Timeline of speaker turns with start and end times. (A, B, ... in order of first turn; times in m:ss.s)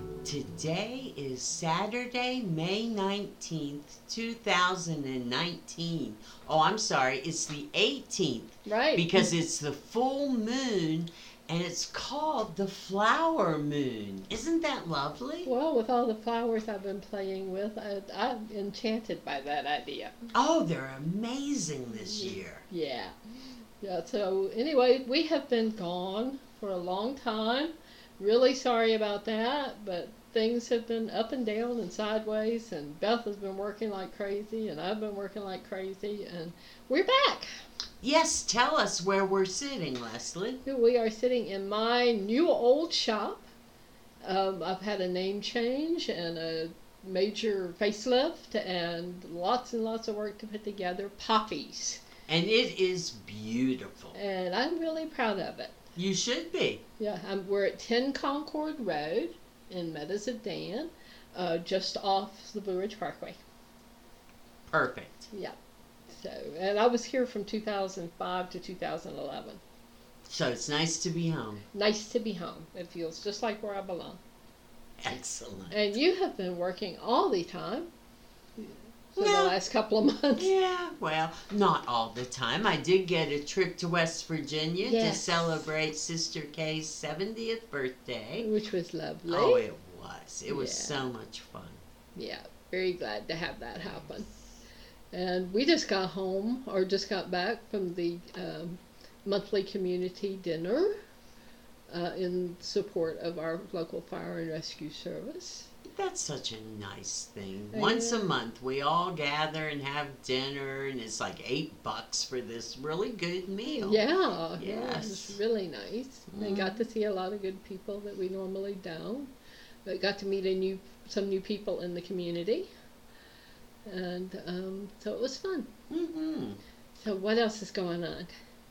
0:00.2-0:15.5 A
0:08.6-0:09.3 B
0:15.4-0:20.2 B
0:20.3-0:22.6 A
0:22.1-0:23.1 B
0:23.8-0:37.5 B
0:38.0-0:40.6 A
0:40.6-0:43.5 B
0:44.2-0:52.0 B
0:52.3-0:54.2 A
0:54.1-0:55.7 B
0:56.0-0:56.8 A
0:57.0-1:03.4 B
1:04.7-1:05.3 A
1:05.3-1:05.6 B
1:06.1-1:09.6 B
1:10.3-1:11.6 A
1:11.7-1:14.2 B
1:15.0-1:15.8 A
1:15.7-1:17.9 B
1:18.6-1:20.5 B
1:19.2-1:19.6 A
1:20.4-1:28.5 A
1:24.8-1:25.5 B
1:28.4-1:29.6 B
1:29.3-1:31.8 A
1:30.5-1:31.0 B
1:32.2-1:34.3 B
1:35.1-1:41.0 B
1:41.9-1:45.7 B
1:45.8-1:54.0 A
1:47.7-1:48.3 B
1:53.8-1:59.3 B
1:54.6-1:55.4 A
1:56.3-1:56.8 A
1:59.8-2:02.7 B
2:03.8-2:05.7 B
2:05.9-2:06.6 A
2:07.0-2:08.3 B